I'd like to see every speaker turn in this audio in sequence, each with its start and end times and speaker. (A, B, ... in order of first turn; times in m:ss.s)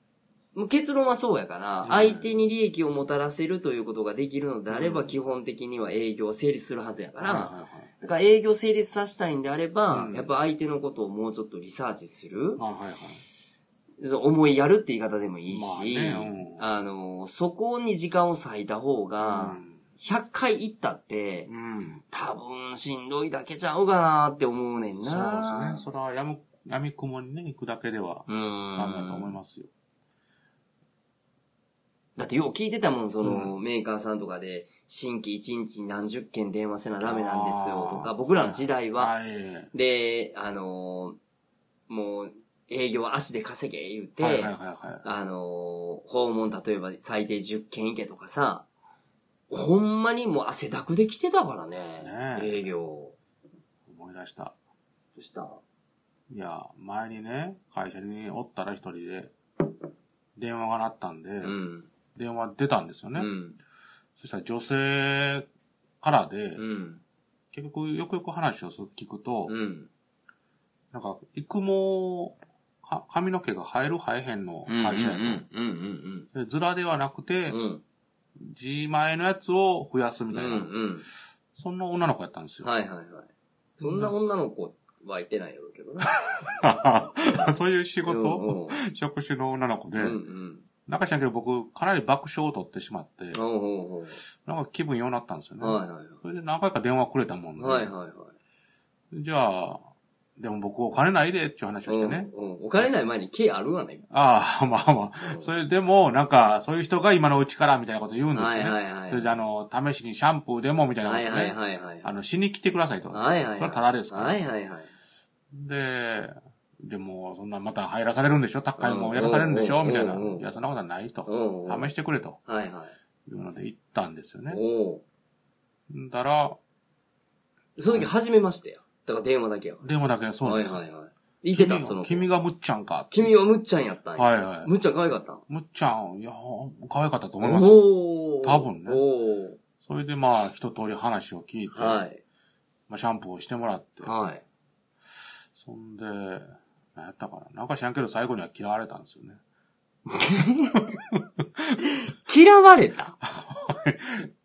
0:00.5-0:12.6 A
0:01.8-0:02.3 B
0:04.7-0:05.2 B
0:07.2-0:07.9 B
0:09.9-0:10.3 B
0:12.6-0:13.2 B
0:14.0-0:21.5 A
0:15.5-0:16.6 B
0:19.2-0:19.8 B
0:21.5-0:22.0 B
0:22.1-0:25.8 A
0:25.0-0:29.7 B
0:28.3-0:29.4 A
0:32.2-0:39.1 A
0:33.2-0:33.5 B
0:37.0-0:39.7 B
0:39.7-0:41.2 A
0:41.9-0:48.6 A
0:44.2-0:45.0 B
0:49.5-0:53.1 A
0:52.0-0:52.5 B
0:53.9-0:54.5 B
0:55.2-0:55.6 A
0:56.3-0:59.3 B
1:00.4-1:01.5 B
1:01.4-1:01.9 A
1:02.1-1:03.3 B
1:03.2-1:03.6 A
1:04.2-1:05.5 B
1:06.0-1:06.6 B
1:06.6-1:07.0 A
1:07.5-1:09.5 B
1:09.5-1:09.9 A
1:10.9-1:15.4 B
1:14.7-1:16.3 A
1:16.3-1:17.6 B
1:17.5-1:17.8 A
1:18.4-1:20.7 B
1:20.3-1:21.1 A
1:21.6-1:22.7 B
1:22.6-1:26.5 A
1:23.8-1:24.1 B
1:26.6-1:30.2 B
1:27.2-1:27.5 A
1:28.0-1:28.8 A
1:30.0-1:30.6 A
1:30.8-1:33.4 B
1:33.3-1:34.2 A
1:34.3-1:37.9 B
1:35.6-1:36.2 A
1:37.6-1:38.3 A
1:39.1-1:39.8 B
1:40.4-1:42.9 B
1:41.8-1:44.0 A
1:44.1-1:54.4 B
1:45.2-1:45.5 A
1:48.3-1:49.3 A
1:51.0-1:52.1 A
1:53.1-1:54.9 A
1:55.5-2:02.4 B
1:58.8-2:00.5 A
2:01.3-2:01.9 A
2:02.4-2:02.9 A
2:03.2-2:04.6 B
2:04.5-2:05.0 A
2:05.9-2:06.6 B
2:07.8-2:09.8 A
2:09.8-2:10.8 B
2:10.4-2:12.3 A
2:11.5-2:13.3 B
2:13.1-2:15.4 A
2:14.2-2:14.7 B
2:15.5-2:17.8 B
2:17.4-2:19.6 A
2:18.4-2:19.0 B
2:19.8-2:22.0 B
2:21.7-2:22.2 A
2:22.9-2:24.1 B
2:24.0-2:24.4 A
2:25.6-2:29.4 B
2:30.0-2:30.9 A
2:30.9-2:31.8 B
2:31.9-2:33.2 A
2:33.2-2:34.3 B